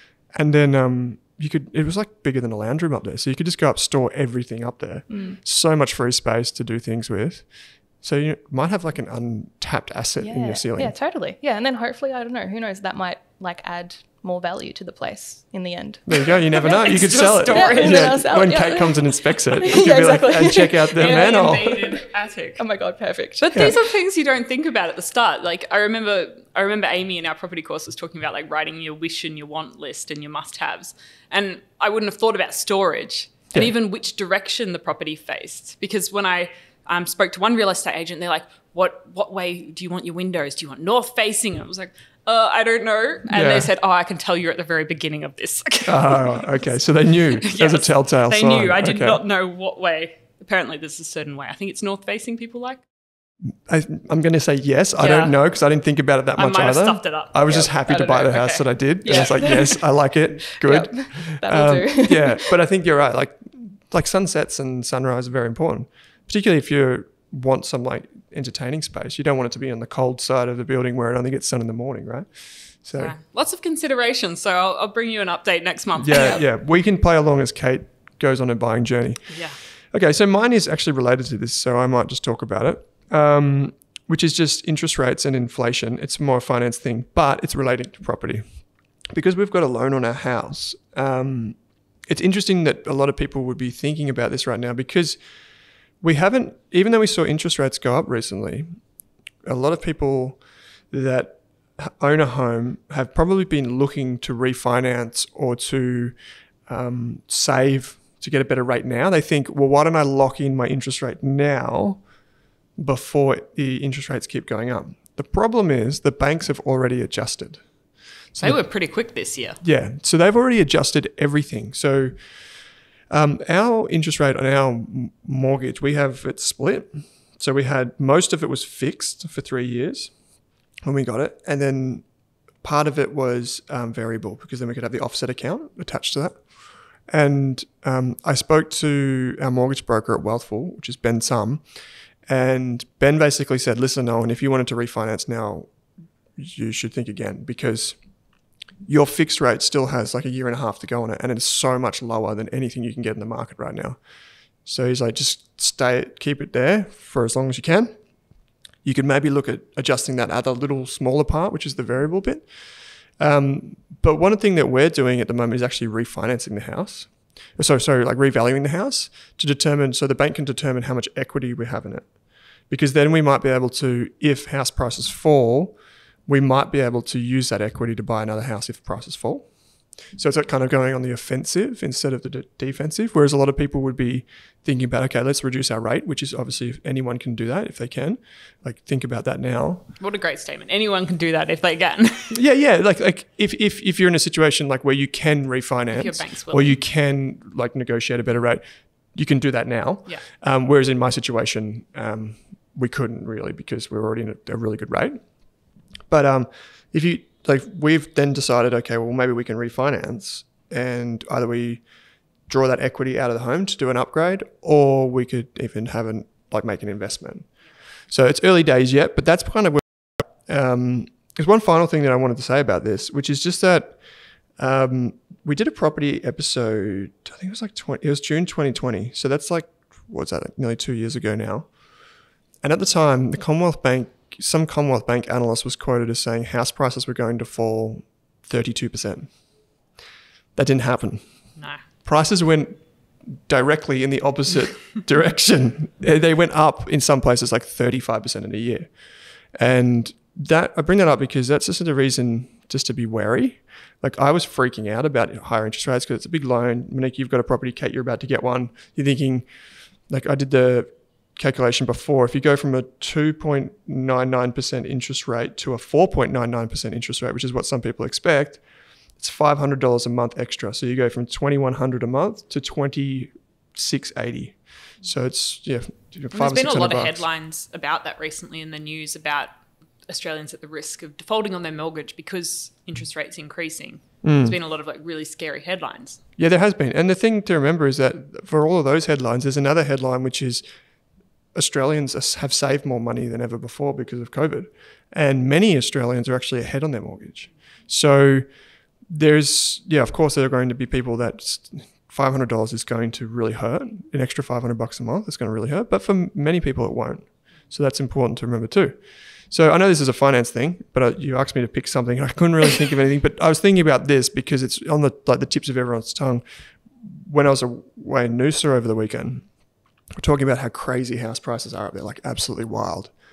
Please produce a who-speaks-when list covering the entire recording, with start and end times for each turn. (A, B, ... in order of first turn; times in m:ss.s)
0:00.3-0:11.0 A
0:05.1-0:05.4 B
0:10.2-0:16.9 B
0:16.1-0:21.7 A
0:16.6-0:18.4 C
0:17.5-0:23.8 B
0:21.0-0:22.6 C
0:23.4-0:46.8 C
0:43.3-0:43.7 A
0:45.9-0:49.2 A
0:47.3-0:52.8 C
0:53.5-1:13.2 A
0:55.0-0:55.4 C
0:56.4-0:59.8 C
0:59.0-0:59.8 B
1:00.5-1:02.5 B
1:13.0-1:16.4 C
1:16.0-1:35.2 A
1:16.1-1:16.4 B
1:19.3-1:19.6 C
1:36.0-1:38.8 A
1:39.4-1:46.2 A
1:46.7-1:52.0 A
1:52.8-1:57.7 A
1:58.3-1:58.6 A
1:58.4-1:59.6 C
1:59.6-2:02.3 A
2:03.1-2:10.2 A
2:10.8-2:12.1 A
2:12.6-2:21.7 A
2:22.3-2:25.7 A
2:26.4-2:28.0 A
2:28.9-2:34.0 A
2:34.6-2:38.0 A
2:38.8-2:42.6 A
2:43.1-2:59.5 A
3:00.1-3:09.8 A
3:10.0-3:12.4 C
3:12.3-3:25.3 A
3:15.9-3:16.8 C
3:26.1-3:31.8 A
3:32.5-3:37.5 A
3:38.1-3:44.0 A
3:44.6-3:51.8 A
3:52.6-3:59.4 A
4:00.6-4:08.9 A
4:01.6-4:01.8 C
4:09.5-4:19.5 A
4:20.1-4:28.6 A
4:29.2-4:37.2 A
4:36.3-4:39.5 C
4:40.1-4:46.2 C
4:44.2-4:44.6 A
4:46.4-4:50.6 A
4:51.5-4:58.5 A
4:59.1-5:19.5 A
5:20.2-5:23.2 A